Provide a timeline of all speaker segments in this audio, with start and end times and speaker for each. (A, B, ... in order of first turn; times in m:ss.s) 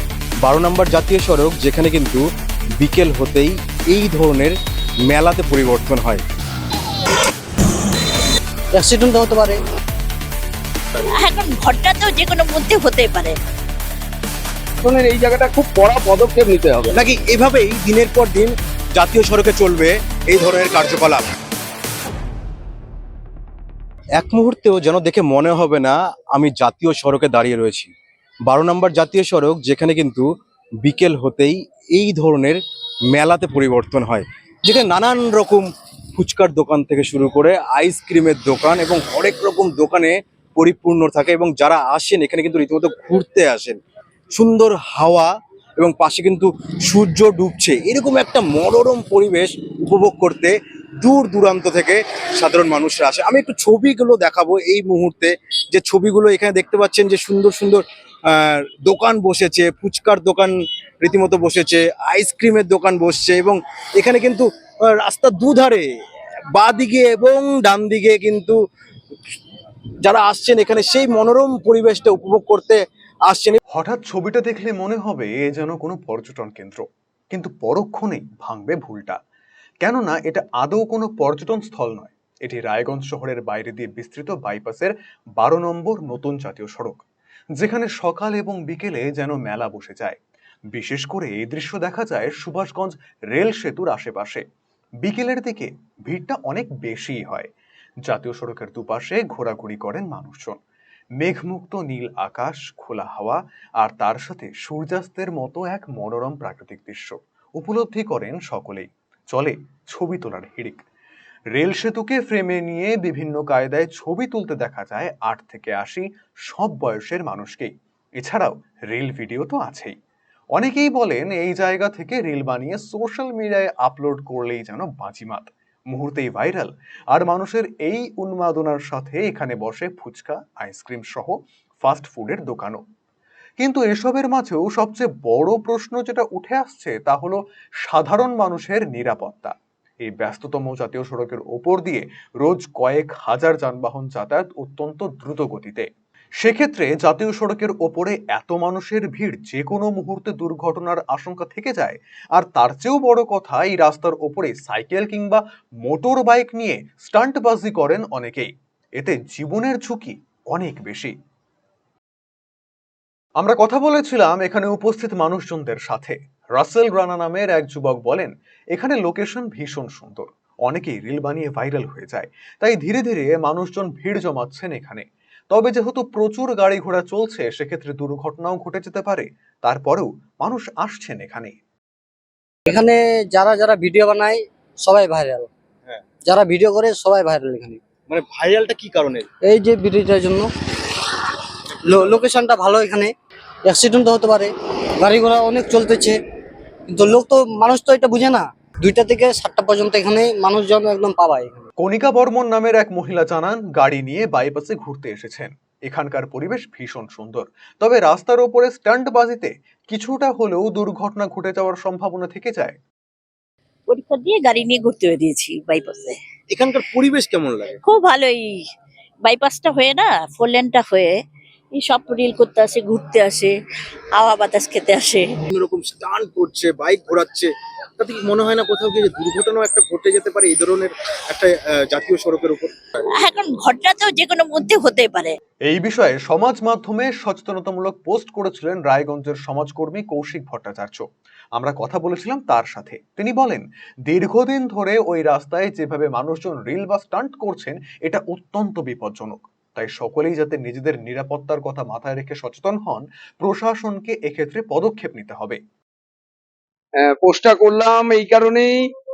0:00.4-0:02.3 A
0:02.8-0:04.6 A
0:05.1-0:06.2 A
0:08.7-0:09.6 B
0:11.2-0:13.4 C
0:14.8-0:17.0 D
0:16.9-0:21.2 A
0:24.2-0:27.9 A
0:28.5-0:30.3 A
0:30.8-0:43.8 A
0:44.3-1:05.9 A
1:06.5-1:08.6 A
1:10.0-1:13.6 A
1:13.7-1:19.2 E
1:19.8-1:27.0 E
1:27.6-1:30.2 E
1:30.7-1:34.4 E
1:35.0-1:37.5 E
1:38.0-1:40.6 E
1:41.2-1:50.8 E
1:51.5-2:00.0 E
2:00.6-2:12.8 E
2:13.6-2:25.9 E
2:26.4-2:41.1 E
2:43.4-3:01.6 E
3:02.7-3:05.5 B
3:06.2-3:07.8 B
3:08.1-3:09.3 A
3:09.4-3:10.5 B
3:11.9-3:13.1 B
3:13.6-3:16.2 B
3:16.9-3:21.7 B
3:21.8-3:32.8 E
3:33.9-3:36.2 C
3:36.5-3:37.8 A
3:37.8-3:38.6 C
3:39.2-3:41.1 C
3:41.8-3:43.6 C
3:44.2-3:45.3 C
3:45.5-3:52.8 A
3:53.2-3:55.4 C
3:55.7-4:01.0 E
4:01.6-4:15.6 E
4:17.0-4:18.8 D